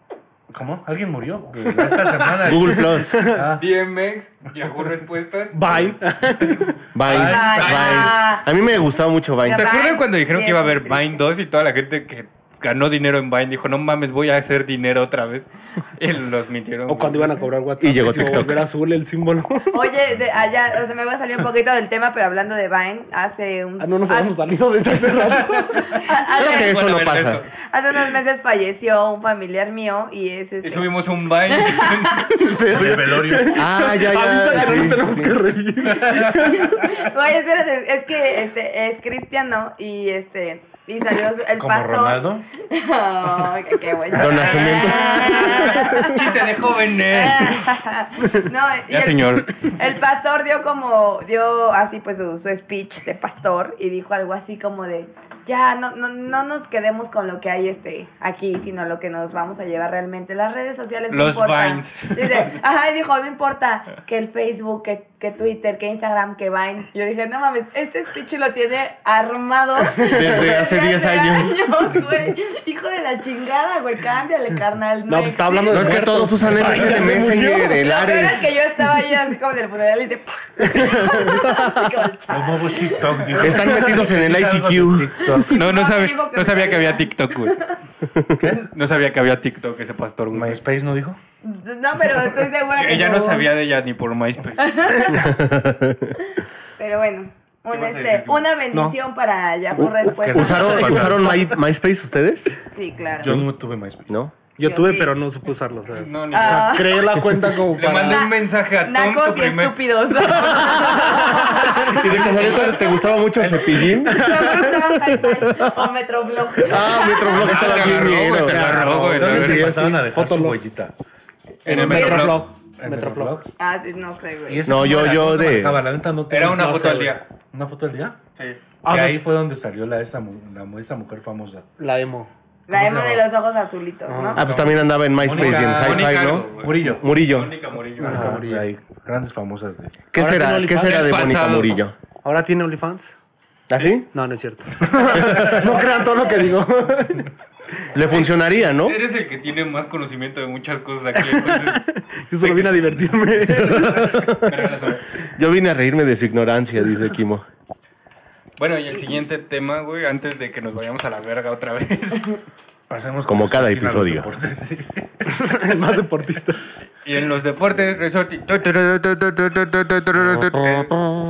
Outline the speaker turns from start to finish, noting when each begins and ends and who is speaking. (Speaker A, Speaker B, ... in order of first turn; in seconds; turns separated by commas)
Speaker A: 0.5-3.6, Speaker B: 1.6-3.5, Speaker C: 2.4-3.3, Speaker D: 3.6-6.0, Speaker B: 5.5-6.8, Speaker C: 6.9-9.8, Speaker A: 7.0-8.1, Speaker E: 7.1-8.5, Speaker D: 7.6-8.1, Speaker E: 9.4-11.2, Speaker D: 9.5-17.5, Speaker B: 16.9-19.7, Speaker C: 17.8-18.6, Speaker E: 19.7-24.3, Speaker B: 23.8-26.0, Speaker E: 25.9-26.8, Speaker C: 26.3-27.4, Speaker D: 26.4-27.4, Speaker E: 27.7-30.9, Speaker D: 30.6-32.4, Speaker E: 31.5-32.4, Speaker B: 32.4-36.7, Speaker A: 32.7-33.6, Speaker C: 33.5-35.4, Speaker A: 35.9-36.9, Speaker E: 36.4-46.4, Speaker A: 41.6-42.5, Speaker C: 44.1-46.1, Speaker A: 44.1-44.6, Speaker D: 45.4-47.6, Speaker E: 47.1-76.1, Speaker D: 48.9-49.6, Speaker D: 61.1-62.5, Speaker B: 69.9-70.5, Speaker C: 70.1-71.6, Speaker B: 75.1-77.8, Speaker C: 75.7-78.5, Speaker A: 76.6-76.9, Speaker E: 77.7-83.5, Speaker B: 80.6-81.4, Speaker A: 82.3-85.6, Speaker C: 83.3-85.2, Speaker E: 85.3-87.7, Speaker D: 85.5-87.6, Speaker A: 88.4-88.7, Speaker D: 88.7-90.6, Speaker A: 90.3-91.2, Speaker E: 91.4-93.5, Speaker D: 92.7-95.0, Speaker E: 94.6-95.3, Speaker C: 95.1-96.2, Speaker E: 96.8-100.8, Speaker D: 97.7-98.5, Speaker A: 100.0-101.4, Speaker C: 100.3-102.5, Speaker B: 100.4-101.4, Speaker E: 102.7-103.3, Speaker A: 103.2-104.1, Speaker C: 104.1-104.3, Speaker B: 104.6-108.3, Speaker E: 104.6-105.1, Speaker D: 106.0-107.0, Speaker E: 106.3-107.1, Speaker D: 107.7-109.8, Speaker E: 108.0-112.8, Speaker C: 111.0-114.5, Speaker B: 113.8-114.8, Speaker E: 114.0-117.4, Speaker C: 116.6-118.8, Speaker D: 117.3-119.8, Speaker A: 117.3-120.9, Speaker B: 118.5-120.6, Speaker D: 121.6-122.5, Speaker B: 121.7-123.3, Speaker A: 121.7-123.5, Speaker E: 122.0-122.3, Speaker E: 123.6-124.7, Speaker A: 124.5-128.2, Speaker C: 124.6-125.8, Speaker D: 126.3-127.2, Speaker B: 128.8-129.3, Speaker A: 128.9-131.6, Speaker B: 131.8-132.3, Speaker E: 132.7-134.4, Speaker A: 132.7-133.2, Speaker B: 134.1-134.4, Speaker C: 134.3-137.5, Speaker D: 134.5-134.8, Speaker A: 135.2-137.0, Speaker D: 135.3-138.4, Speaker B: 138.0-138.7, Speaker A: 138.0-140.1, Speaker C: 140.1-141.9, Speaker B: 140.1-141.1, Speaker D: 140.8-141.8, Speaker B: 142.2-143.1, Speaker C: 143.7-144.1, Speaker B: 144.1-147.3, Speaker C: 145.2-145.6, Speaker C: 147.9-149.0, Speaker D: 148.0-151.8, Speaker B: 151.2-154.3, Speaker D: 152.4-152.8, Speaker C: 153.7-154.5, Speaker D: 154.3-155.0, Speaker C: 155.3-157.4, Speaker D: 158.6-162.4, Speaker A: 162.9-165.3, Speaker C: 163.3-164.3, Speaker B: 165.3-166.6, Speaker D: 167.0-171.0